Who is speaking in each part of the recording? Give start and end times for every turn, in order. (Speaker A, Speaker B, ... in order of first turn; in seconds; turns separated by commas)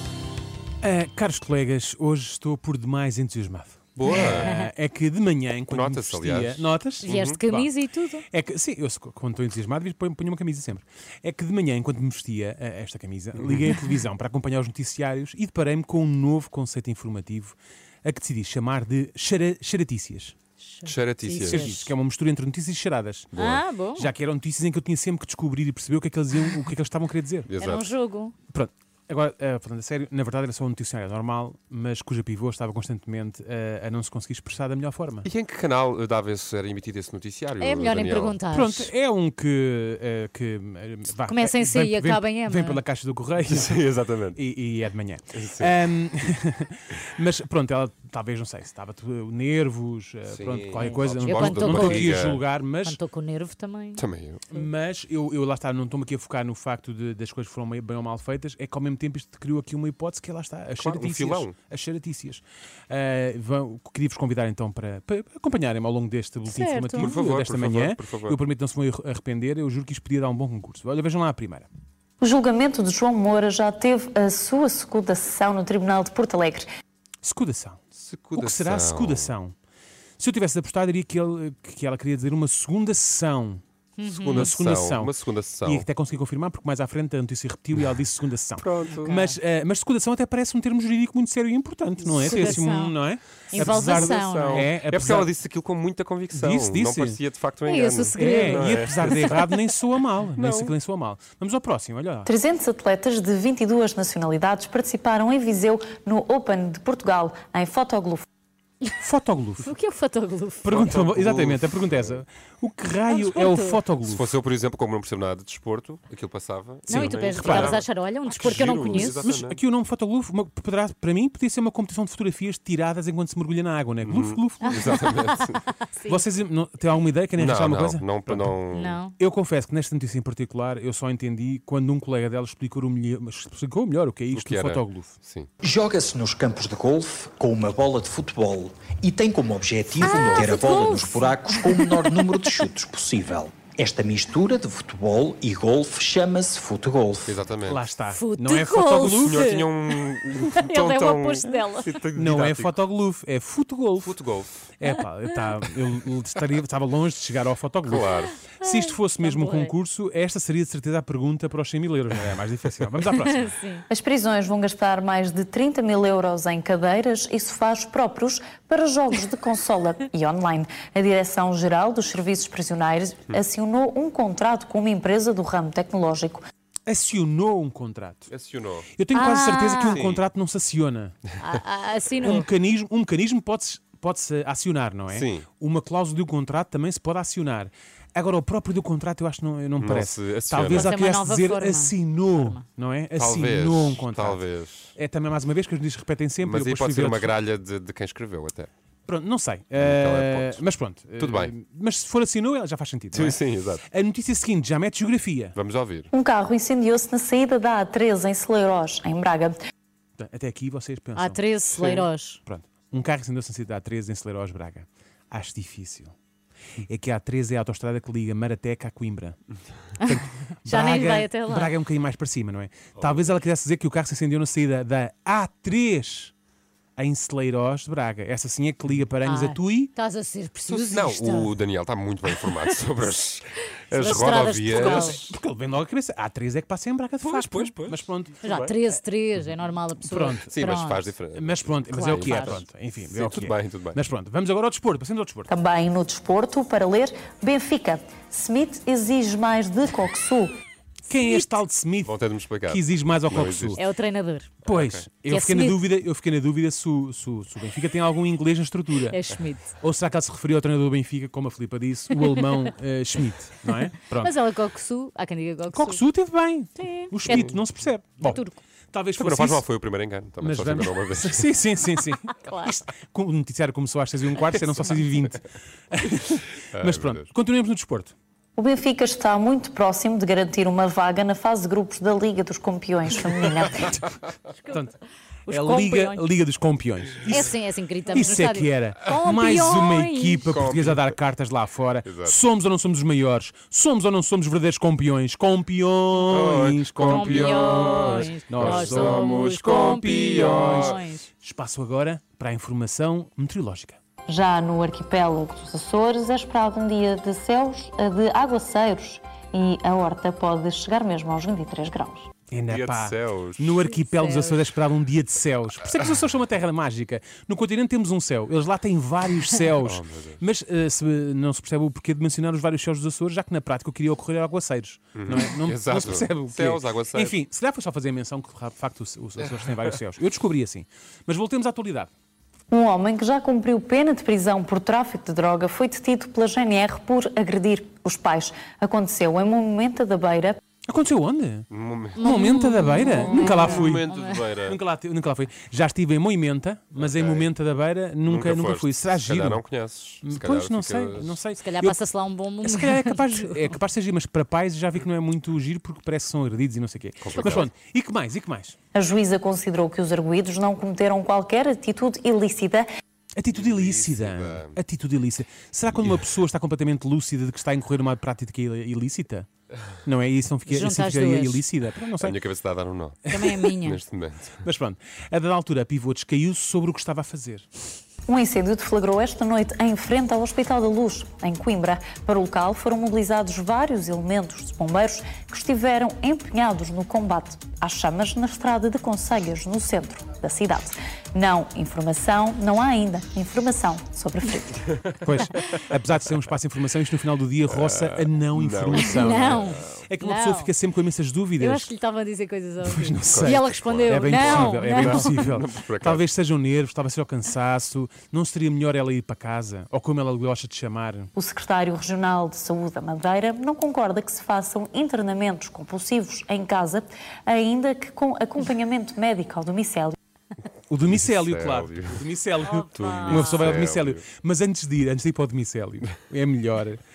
Speaker A: 0.8-7.7, Speaker B: 4.0-4.6, Speaker C: 4.1-4.7, Speaker B: 5.6-7.4, Speaker C: 7.0-8.2, Speaker A: 8.3-20.3, Speaker B: 13.4-13.6, Speaker C: 20.6-21.9, Speaker B: 20.8-21.7, Speaker A: 21.4-23.3, Speaker B: 23.3-23.6, Speaker C: 23.4-24.1, Speaker A: 23.9-27.5, Speaker B: 27.5-27.9, Speaker C: 27.6-28.3, Speaker A: 28.5-35.2, Speaker B: 35.2-38.4, Speaker C: 37.6-38.9, Speaker A: 38.5-53.0, Speaker C: 41.2-42.8, Speaker B: 43.4-44.4, Speaker B: 45.3-45.8, Speaker B: 50.3-52.4, Speaker C: 50.7-54.0, Speaker B: 53.9-54.4, Speaker A: 54.5-71.7, Speaker B: 60.8-61.6, Speaker C: 66.5-67.1, Speaker B: 67.0-68.4, Speaker D: 72.2-76.7, Speaker A: 77.2-77.8, Speaker B: 77.9-79.3, Speaker A: 78.3-79.5, Speaker A: 80.2-83.6, Speaker C: 84.0-84.6, Speaker B: 84.1-85.9, Speaker A: 84.3-95.3, Speaker B: 88.6-89.2, Speaker C: 89.0-89.4, Speaker C: 92.2-93.0, Speaker C: 93.5-94.7, Speaker B: 93.8-99.3, Speaker A: 96.3-97.2, Speaker C: 97.6-99.5, Speaker A: 98.2-102.3, Speaker B: 100.4-100.7, Speaker D: 102.2-108.2, Speaker A: 109.0-109.7, Speaker C: 109.6-110.7, Speaker A: 110.6-114.3, Speaker B: 110.7-112.2, Speaker C: 113.1-113.8, Speaker B: 114.0-119.6, Speaker C: 116.9-119.3, Speaker A: 116.9-117.8, Speaker A: 118.4-124.9, Speaker B: 124.0-125.6, Speaker C: 124.6-126.2, Speaker A: 126.1-128.6, Speaker B: 127.4-129.0, Speaker C: 128.7-129.1, Speaker A: 129.2-135.2, Speaker B: 134.3-135.5, Speaker E: 135.6-147.4, Speaker C: 140.0-142.2, Speaker B: 147.2-147.9, Speaker A: 147.7-149.4, Speaker C: 148.1-151.9, Speaker B: 149.2-152.8, Speaker A: 152.1-154.1, Speaker B: 154.0-154.6, Speaker A: 154.8-163.5, Speaker B: 157.8-158.3, Speaker C: 158.1-159.7, Speaker C: 163.1-163.8, Speaker D: 163.9-176.4, Speaker A: 176.9-178.3, Speaker B: 178.3-178.9, Speaker A: 178.9-181.2, Speaker C: 179.1-180.0, Speaker B: 179.9-180.3, Speaker C: 181.4-182.5, Speaker A: 182.2-194.4, Speaker B: 185.1-185.5, Speaker B: 189.8-190.9, Speaker C: 190.7-192.6, Speaker B: 193.1-194.9, Speaker A: 194.9-197.3, Speaker B: 196.4-198.7, Speaker A: 199.1-205.6, Speaker B: 199.8-200.6, Speaker B: 201.2-201.5, Speaker B: 203.1-203.8, Speaker B: 205.6-206.1, Speaker D: 206.1-209.6, Speaker A: 210.2-211.4, Speaker C: 211.2-212.4, Speaker A: 212.4-216.1, Speaker A: 216.8-219.4, Speaker A: 220.0-226.3, Speaker C: 220.0-221.7, Speaker A: 227.0-229.9, Speaker C: 229.2-231.6, Speaker B: 230.7-235.3, Speaker C: 232.2-232.8, Speaker C: 233.9-235.2, Speaker A: 234.7-238.4, Speaker B: 237.2-238.8, Speaker C: 238.4-241.0, Speaker A: 240.0-240.7, Speaker B: 240.5-242.6, Speaker A: 241.3-245.5, Speaker C: 241.9-242.6, Speaker B: 243.1-244.0, Speaker D: 245.5-250.5, Speaker A: 251.1-252.1, Speaker C: 251.1-251.5, Speaker B: 252.0-253.8, Speaker A: 252.7-253.8, Speaker C: 253.7-254.5, Speaker A: 254.6-259.2, Speaker B: 254.7-255.1, Speaker C: 255.2-255.8, Speaker C: 259.0-259.7, Speaker A: 259.8-264.3, Speaker C: 262.2-262.7, Speaker C: 264.1-266.0, Speaker A: 265.7-269.6, Speaker C: 266.8-267.5, Speaker C: 268.2-268.6, Speaker B: 269.2-271.4, Speaker A: 270.4-278.1, Speaker C: 272.4-272.7, Speaker B: 276.7-277.3, Speaker D: 278.6-284.0, Speaker A: 284.7-284.9, Speaker C: 285.5-286.2, Speaker A: 285.5-287.5, Speaker C: 287.2-290.5, Speaker A: 288.1-304.0, Speaker B: 290.4-291.0, Speaker B: 292.0-292.4, Speaker B: 296.3-301.0, Speaker C: 297.0-301.3, Speaker D: 304.3-312.3, Speaker A: 312.5-332.1, Speaker B: 312.7-313.8, Speaker C: 313.8-314.7, Speaker B: 319.8-320.4, Speaker B: 325.1-327.4, Speaker D: 332.7-340.6, Speaker A: 340.9-341.7, Speaker B: 341.7-342.3, Speaker C: 342.2-344.5, Speaker A: 342.2-344.0, Speaker B: 343.1-344.8, Speaker A: 344.6-349.6, Speaker B: 347.0-347.5, Speaker B: 348.2-351.4, Speaker A: 350.2-352.0, Speaker C: 351.6-353.8, Speaker A: 352.6-358.8, Speaker B: 357.2-357.7, Speaker D: 358.9-362.9, Speaker A: 363.4-369.5, Speaker B: 363.5-364.8, Speaker A: 370.0-372.4, Speaker C: 370.7-371.6, Speaker B: 372.2-373.2, Speaker A: 373.3-373.7, Speaker C: 373.3-374.0, Speaker B: 373.8-374.6, Speaker A: 374.6-377.6, Speaker D: 378.3-395.0, Speaker A: 395.2-401.9, Speaker B: 397.7-399.9, Speaker C: 398.9-400.7, Speaker C: 401.6-405.4, Speaker A: 402.8-411.3, Speaker B: 403.3-406.2, Speaker D: 411.4-420.1, Speaker A: 420.9-427.0, Speaker B: 421.0-422.2, Speaker C: 422.6-423.8, Speaker B: 422.9-424.2